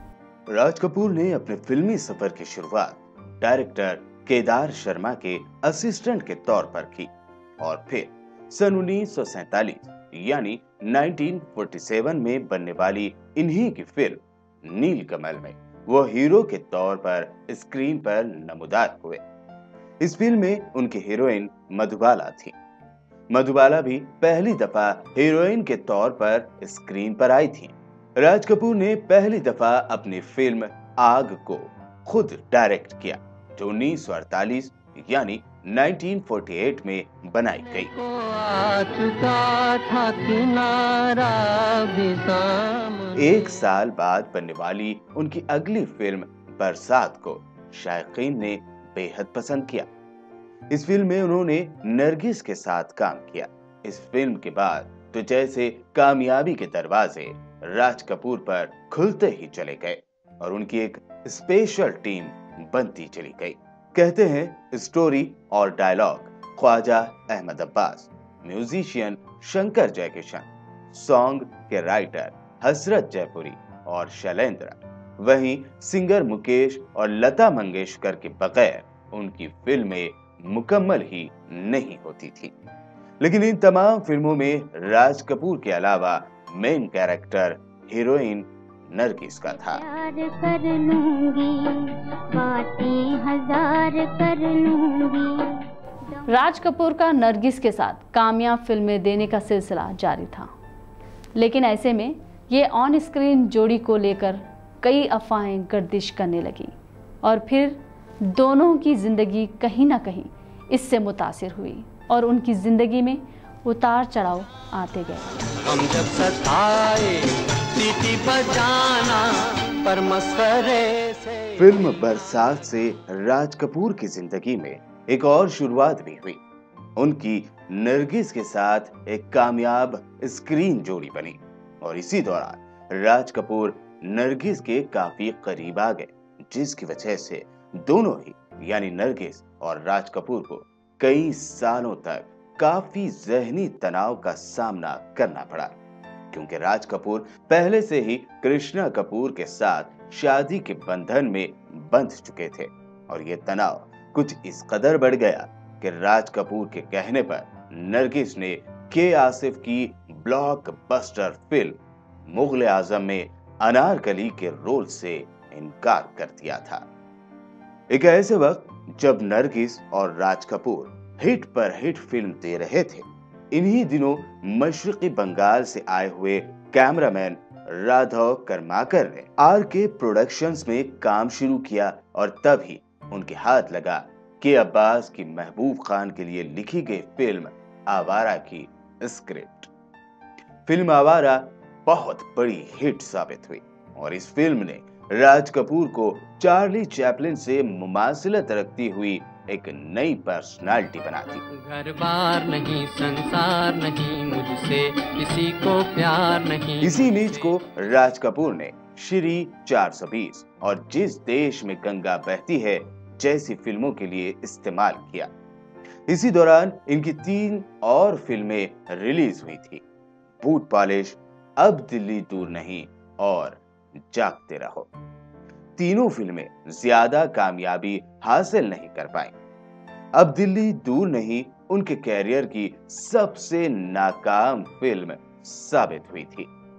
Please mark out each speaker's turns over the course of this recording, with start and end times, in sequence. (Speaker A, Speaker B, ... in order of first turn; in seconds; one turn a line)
Speaker A: 0.5-19.2
Speaker A: 20.0-22.5
Speaker A: 23.3-37.9
Speaker B: 37.7-43.4
Speaker A: 43.2-49.9
Speaker A: 50.7-82.5
Speaker A: 83.2-89.8
Speaker C: 89.5-96.5
Speaker D: 96.3-100.5
Speaker D: 101.4-106.7
Speaker D: 107.2-115.4
Speaker B: 115.6-121.6
Speaker A: 121.6-126.4
Speaker A: 127.0-145.7
Speaker A: 146.3-166.8
Speaker A: 167.9-189.7
Speaker A: 190.7-201.4
Speaker B: 201.4-207.5
Speaker A: 206.8-215.3
Speaker A: 216.1-219.8
Speaker A: 220.4-224.9
Speaker A: 225.8-229.3
Speaker A: 230.2-236.5